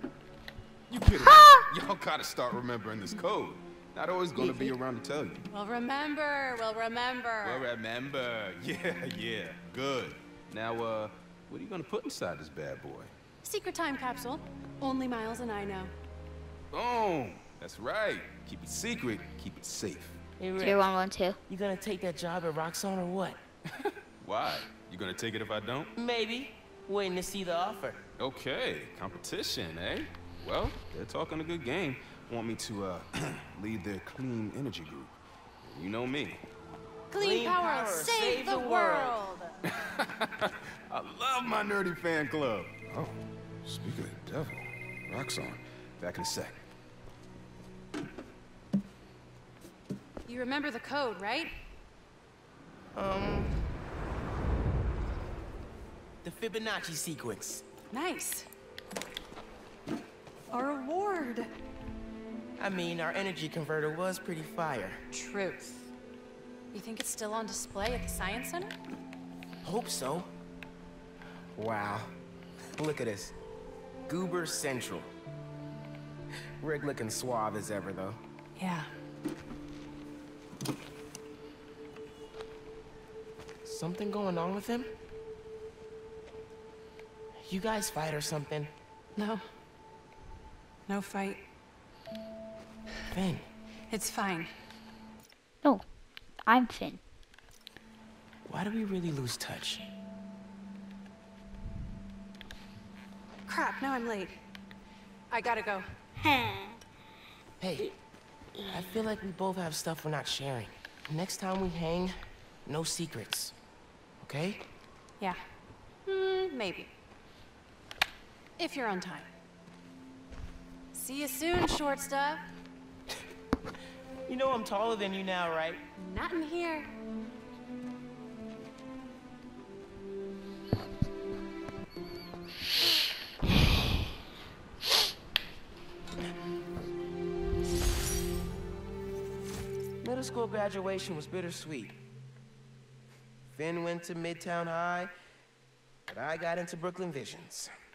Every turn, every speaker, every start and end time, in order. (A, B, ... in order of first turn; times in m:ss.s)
0:00.9-0:05.5 A
0:01.3-0:01.6 B
0:05.5-0:07.7 C
0:07.4-0:13.1 A
0:13.4-0:15.9 C
0:16.7-0:20.2 A
0:20.4-0:20.9 D
0:20.6-0:21.4 B
0:21.5-0:23.4 D
0:24.2-0:25.9 A
0:26.0-0:28.0 D
0:28.2-0:36.4 A
0:37.1-0:39.6 C
0:37.2-0:39.2 D
0:39.8-0:46.6 A
0:50.3-0:51.5 C
0:53.0-0:53.5 D
0:56.2-0:57.6 D
0:57.9-0:58.5 C
1:00.5-1:01.5 C
1:02.6-1:05.0 D
1:05.1-1:05.9 C
1:06.7-1:08.8 C
1:09.6-1:10.3 D
1:11.6-1:12.1 D
1:12.7-1:13.3 D
1:14.1-1:15.1 D
1:16.6-1:18.2 D
1:18.6-1:18.9 C
1:23.6-1:24.9 D
1:27.5-1:28.7 D
1:29.2-1:29.4 C
1:30.9-1:31.4 C
1:33.1-1:33.5 D
1:33.9-1:34.5 C
1:36.5-1:37.0 B
1:38.5-1:39.8 D
1:43.5-1:44.4 C
1:45.3-1:45.9 C
1:46.2-1:46.8 B
1:47.6-1:48.0 D
1:48.7-1:53.6 D
1:54.2-1:54.6 D
1:56.0-1:56.9 C
1:58.6-1:59.3 C
2:00.9-2:02.4 C
2:04.3-2:05.8 D
2:06.0-2:06.9 C
2:20.0-2:22.0 D
2:23.5-2:25.1 D
2:26.1-2:27.7 D